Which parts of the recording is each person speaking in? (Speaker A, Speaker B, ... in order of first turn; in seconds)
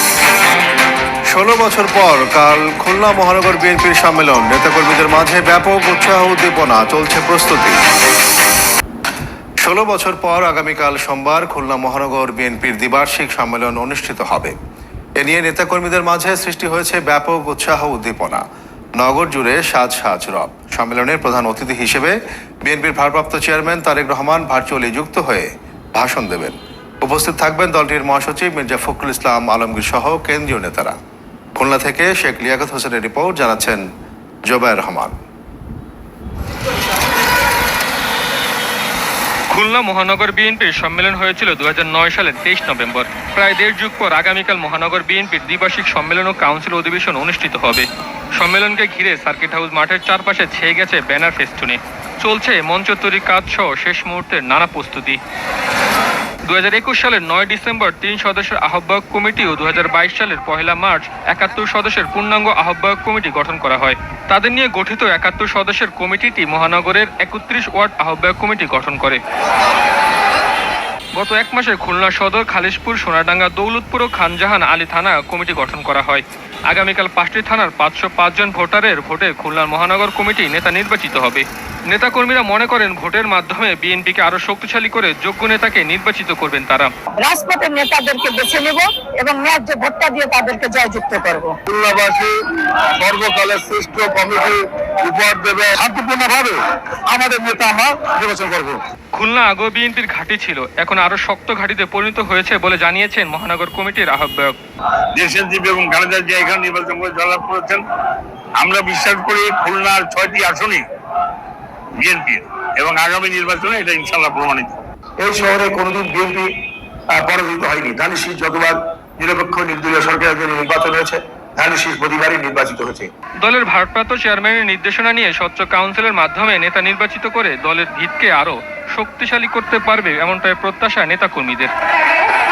Speaker A: 1.3-7.8, 9.6-14.5, 15.2-18.4, 19.0-31.0, 31.5-33.8, 34.5-35.1
Speaker B: 39.5-55.2, 56.5-69.2, 71.2-86.9, 99.1-104.5, 123.4-131.7
Speaker C: 87.2-91.6
Speaker D: 96.0-96.3, 105.1-107.8, 108.6-110.8, 112.0-114.8
Speaker E: 98.1-98.5, 115.2-116.5, 117.1-123.1